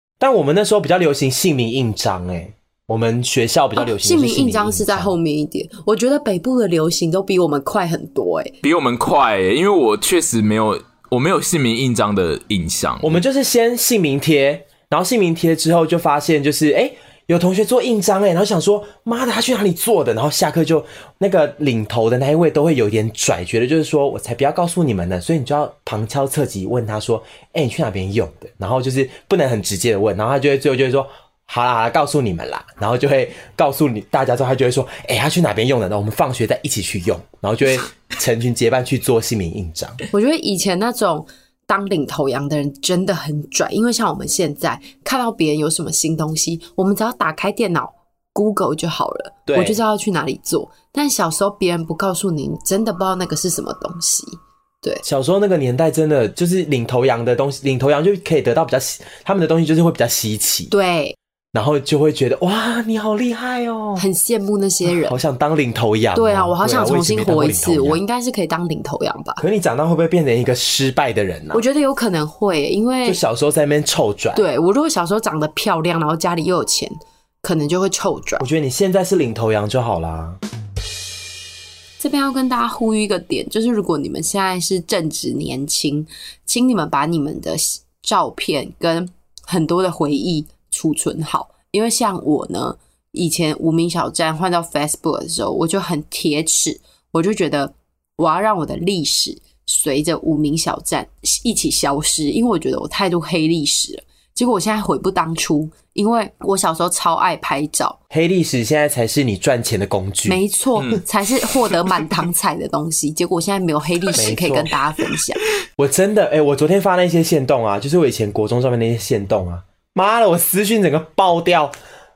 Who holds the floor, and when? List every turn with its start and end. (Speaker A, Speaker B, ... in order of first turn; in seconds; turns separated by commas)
Speaker A: 0.2-5.1, Speaker B: 3.8-8.6, Speaker C: 8.6-13.2, Speaker A: 13.0-40.0, Speaker B: 40.1-55.0, Speaker A: 49.5-49.8, Speaker A: 55.0-60.7, Speaker B: 60.7-61.1, Speaker A: 61.5-64.0, Speaker B: 64.0-65.2, Speaker A: 64.8-68.0, Speaker B: 66.1-69.4, Speaker A: 69.4-71.6, Speaker B: 71.5-73.2, Speaker A: 73.0-74.5, Speaker B: 74.3-78.5, Speaker A: 78.4-80.4, Speaker B: 82.0-108.0, Speaker A: 108.1-110.4, Speaker B: 110.2-115.4, Speaker C: 111.5-112.0, Speaker A: 114.2-114.7, Speaker A: 115.8-121.7